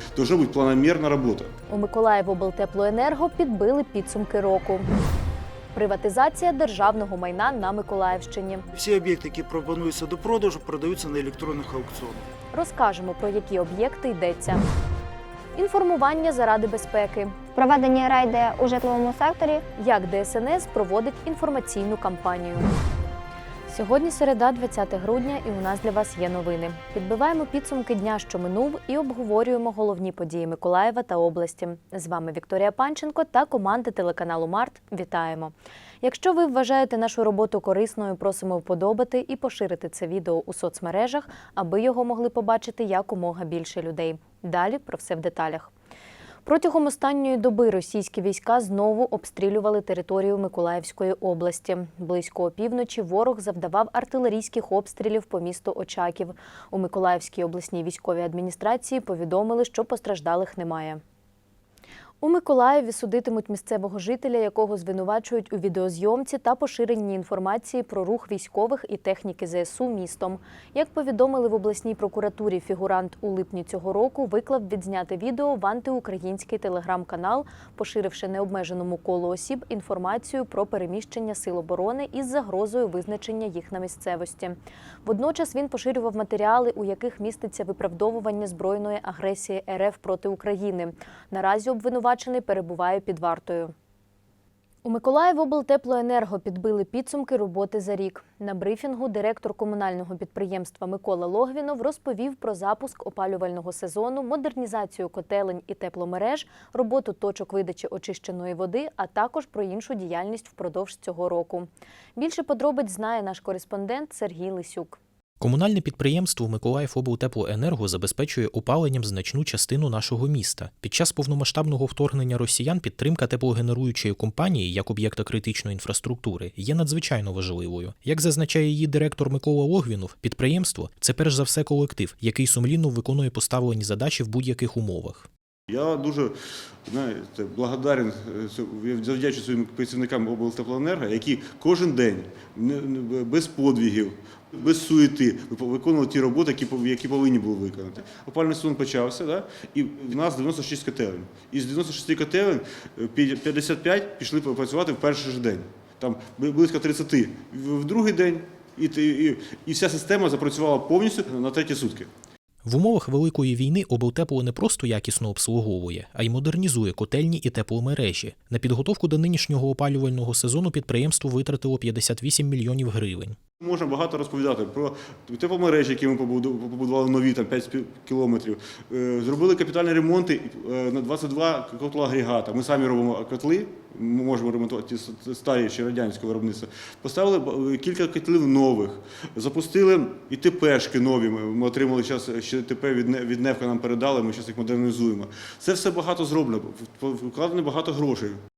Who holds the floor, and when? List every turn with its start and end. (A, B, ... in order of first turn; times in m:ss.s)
0:00.2-0:01.5 A
0:01.7-0:04.9 B
0:05.7-0:08.7 B
0:08.7-0:12.3 C
0:12.5-0:14.6 B
0:15.6-0:17.3 B
0:17.6-0:19.6 D
0:19.8-0:22.7 B
0:23.7-0:45.7 B
0:46.4-1:01.0 B
1:02.2-1:33.7 B
1:34.8-1:55.0 B
1:55.4-2:15.3 E
2:15.7-2:16.3 A
2:16.9-2:42.1 A
2:42.6-2:53.4 E
2:53.6-3:18.4 A